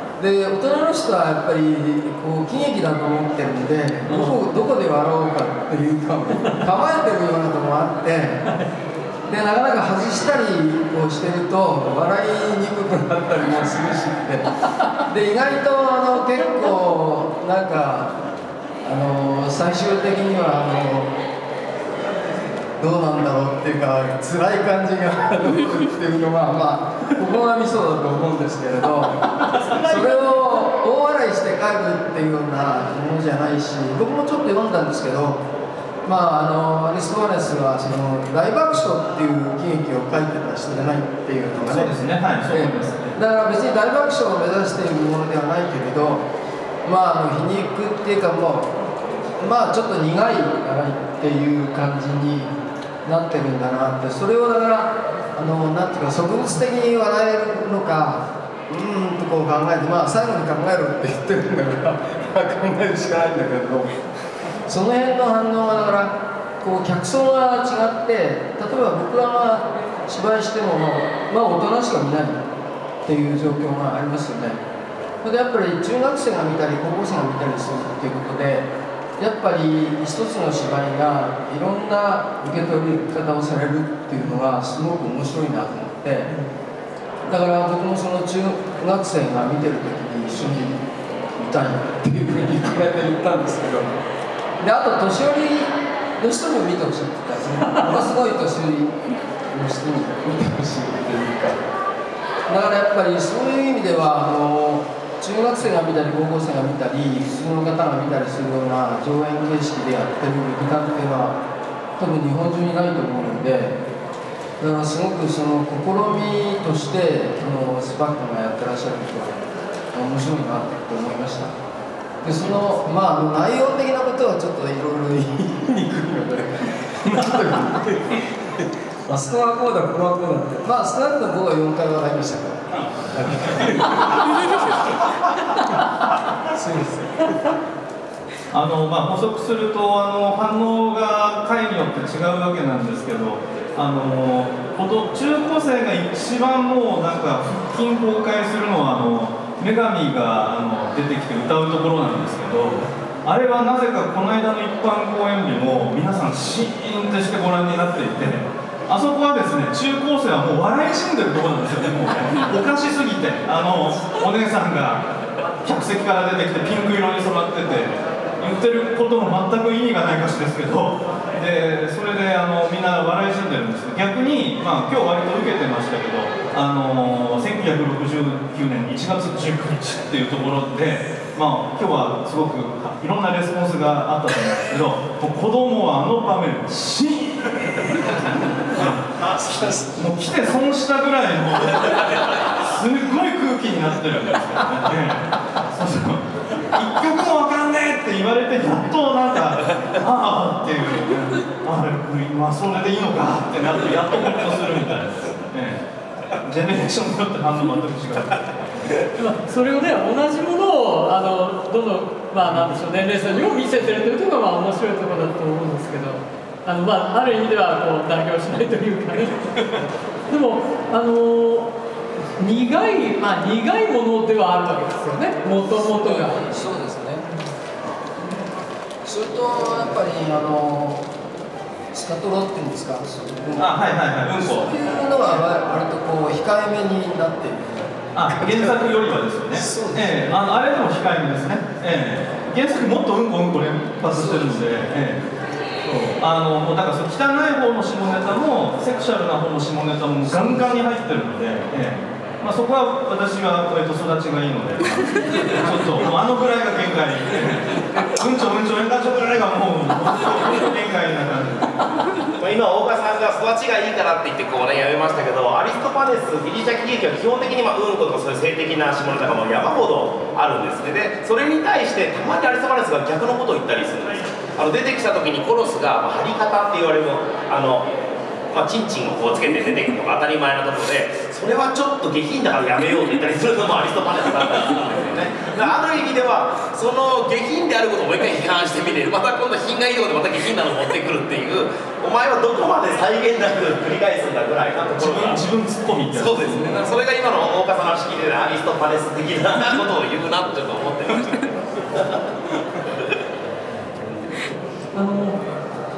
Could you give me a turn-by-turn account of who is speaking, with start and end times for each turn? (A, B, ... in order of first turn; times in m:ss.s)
0:00.2-0:08.5 A
0:04.0-0:04.4 B
0:09.3-0:14.5 A
0:15.0-0:18.2 A
0:18.8-0:21.1 A
0:22.0-0:35.4 A
0:29.3-0:30.2 C
0:36.0-0:41.9 A
0:41.7-0:43.2 B
0:42.4-0:46.2 A
0:46.8-0:48.7 A
0:49.4-1:04.0 A
1:04.6-1:12.4 A
1:13.0-1:14.6 A
1:15.2-1:26.3 A
1:27.2-1:34.0 A
1:34.6-1:41.6 A
1:42.5-1:51.4 A
1:52.0-1:53.8 A
1:54.6-2:01.5 A
2:02.2-2:14.8 A
2:12.7-2:14.2 B
2:16.5-2:17.6 A
2:18.5-2:45.1 B
2:45.6-3:28.6 B
3:09.4-3:09.8 A
3:29.2-3:39.6 C
3:40.3-3:41.8 C
3:42.4-3:46.4 C
3:45.7-3:47.2 A
3:49.0-3:51.1 A
3:51.9-3:58.7 A
3:53.6-3:54.7 B
3:58.1-4:05.2 B
3:59.5-4:00.3 A
4:04.1-4:04.6 A
4:05.8-4:22.2 B
4:22.4-4:37.9 D
4:38.5-4:55.4 D
4:55.0-4:56.9 B
4:56.0-5:02.2 D
5:04.9-5:05.4 C